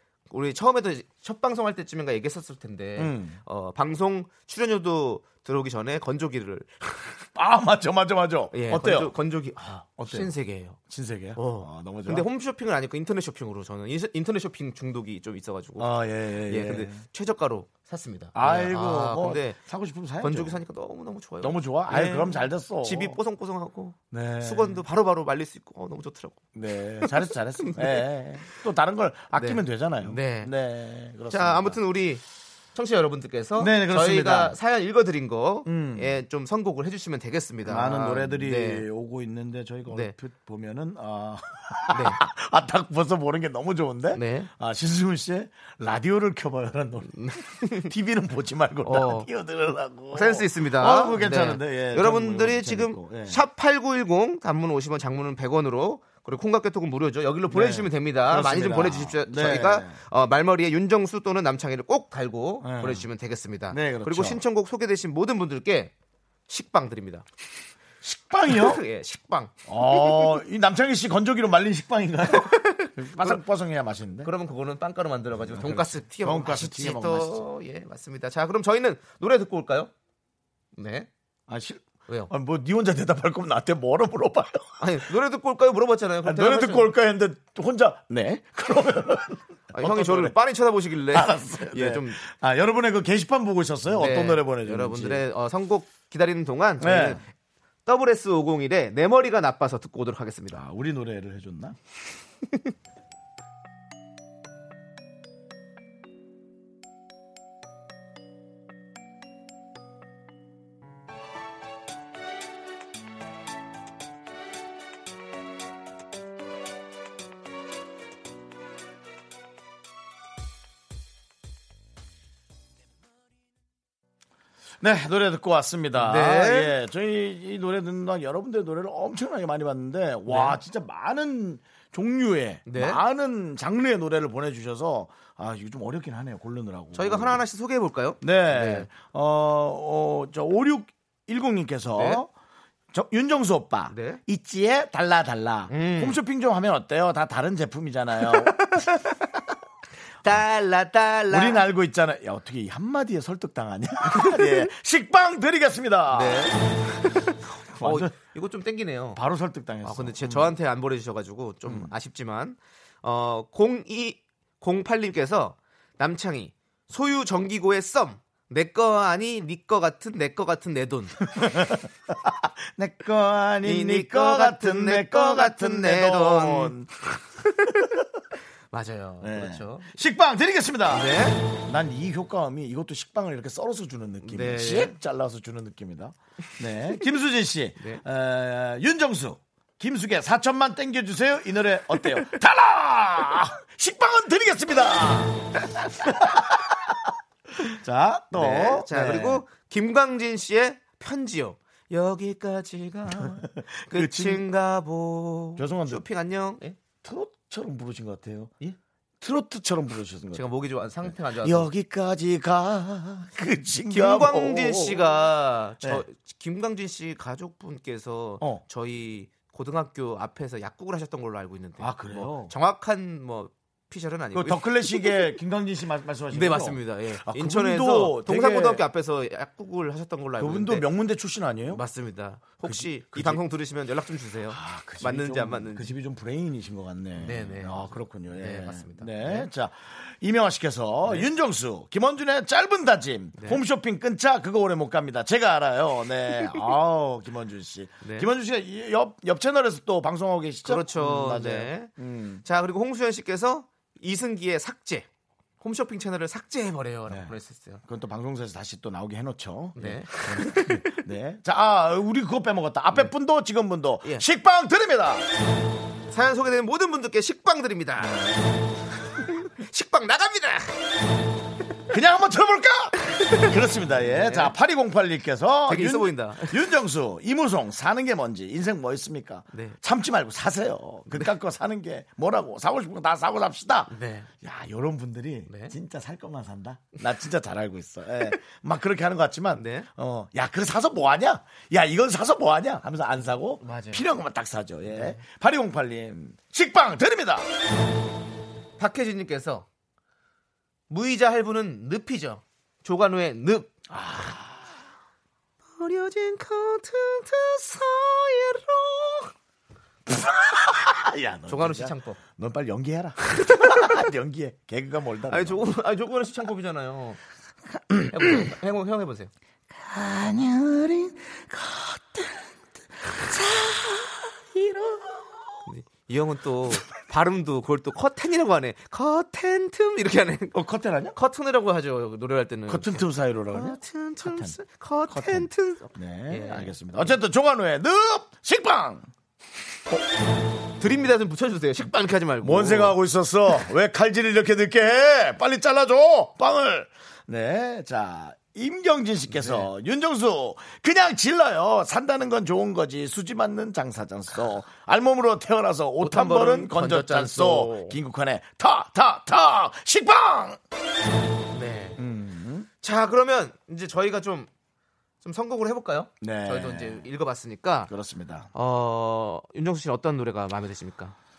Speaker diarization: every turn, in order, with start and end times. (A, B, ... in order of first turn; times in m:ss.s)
0:00.3-0:07.2 A
0:03.0-0:03.4 B
0:07.4-0:09.1 B
0:08.5-0:10.8 A
0:10.0-0:12.3 B
0:11.4-0:15.9 A
0:15.8-0:17.0 B
0:16.5-0:19.6 A
0:18.3-0:20.6 B
0:20.2-0:26.4 A
0:21.4-0:23.2 B
0:24.1-0:24.8 B
0:26.6-0:31.8 B
0:27.0-0:28.0 A
0:29.4-0:30.5 A
0:31.3-0:32.2 A
0:32.8-0:38.9 A
0:33.6-0:34.6 B
0:35.7-0:36.1 B
0:37.7-0:53.4 B
0:39.9-0:40.1 A
0:41.9-0:42.2 A
0:44.1-0:44.5 A
0:47.1-0:47.9 A
0:48.8-0:49.3 A
0:50.1-1:05.9 A
0:57.5-1:00.0 B
1:02.6-1:03.1 B
1:03.7-1:04.4 B
1:06.5-1:07.2 A
1:08.0-1:08.8 B
1:08.5-1:10.4 A
1:09.7-1:14.3 B
1:12.3-1:13.4 A
1:14.2-1:19.9 A
1:15.4-1:17.4 B
1:20.8-1:21.1 A
1:21.5-1:24.8 B
1:24.8-1:26.9 A
1:26.2-1:30.4 B
1:29.7-1:32.2 A
1:31.1-1:35.2 B
1:33.9-1:37.2 A
1:36.8-1:37.2 B
1:37.9-1:40.6 A
1:40.5-1:41.8 B
2:04.8-2:17.4 B
2:06.0-2:06.8 A
2:10.3-2:10.6 A
2:12.7-2:13.0 A
2:16.9-2:18.9 A
2:18.2-2:22.3 B
2:22.0-2:22.2 A
2:22.9-2:28.8 B
2:23.9-2:24.2 A
2:25.7-2:26.2 A
2:28.3-2:29.2 A
2:30.2-2:31.6 A
2:31.3-2:36.6 B
2:34.1-2:34.7 A
2:36.1-2:39.2 A
2:37.7-2:38.1 B
2:39.2-2:40.5 B
2:39.8-2:51.2 A
2:41.7-2:41.9 B
2:51.3-2:56.9 B
2:53.6-2:56.8 A
2:57.4-2:57.9 A
2:57.6-2:58.0 B
2:58.7-3:00.0 A
2:59.2-3:19.4 B
3:00.9-3:01.4 A
3:04.2-3:04.9 A
3:18.3-3:26.8 A
3:23.2-3:24.4 B
3:25.6-3:26.0 B
3:27.0-3:28.5 B
3:29.2-3:30.4 B
3:30.3-3:31.7 A
3:31.0-3:35.2 B
3:33.9-3:45.3 A
3:41.8-3:42.5 B
3:44.3-3:48.8 B
3:46.3-3:50.8 A
3:50.4-3:51.8 B
3:51.7-3:55.9 A
3:52.6-3:53.4 B
3:54.5-4:12.4 B
3:57.2-3:59.5 A
4:08.0-4:08.3 A
4:10.6-4:11.9 A
4:12.4-4:15.1 A
4:15.6-4:17.8 A
4:17.1-4:25.3 B
4:19.8-4:20.9 A
4:26.1-4:28.3 A
4:28.0-4:28.4 B
4:29.2-4:30.7 A
4:31.9-4:57.5 B
4:34.1-4:34.5 A
4:35.7-4:36.6 A
4:39.5-4:39.8 A
4:43.9-4:44.3 A
4:45.5-4:45.7 A
4:49.6-4:49.9 A
4:53.6-4:54.0 A
4:54.9-4:55.2 A
4:58.8-4:59.7 A
5:00.9-5:03.7 A
5:03.9-5:04.7 B
5:05.8-5:09.3 A
5:10.1-5:15.6 B
5:11.5-5:12.2 A
5:13.4-5:13.9 A
5:15.3-5:17.2 A
5:17.9-5:18.5 B
5:18.1-5:19.3 A
5:19.8-5:22.5 B
5:23.1-5:25.3 B
5:25.7-5:30.6 A
5:30.5-5:31.2 B
5:31.1-5:37.2 A
5:32.7-5:34.6 B
5:35.1-5:39.1 B
5:40.8-5:43.0 A
5:42.4-6:00.6 B
5:49.3-5:49.7 A
5:56.0-5:58.0 A
6:01.5-6:02.0 A
6:02.0-6:02.7 B
6:02.8-6:04.5 A
6:05.2-6:07.9 A
6:06.2-6:07.1 B
6:07.9-6:08.5 B
6:08.5-6:11.2 A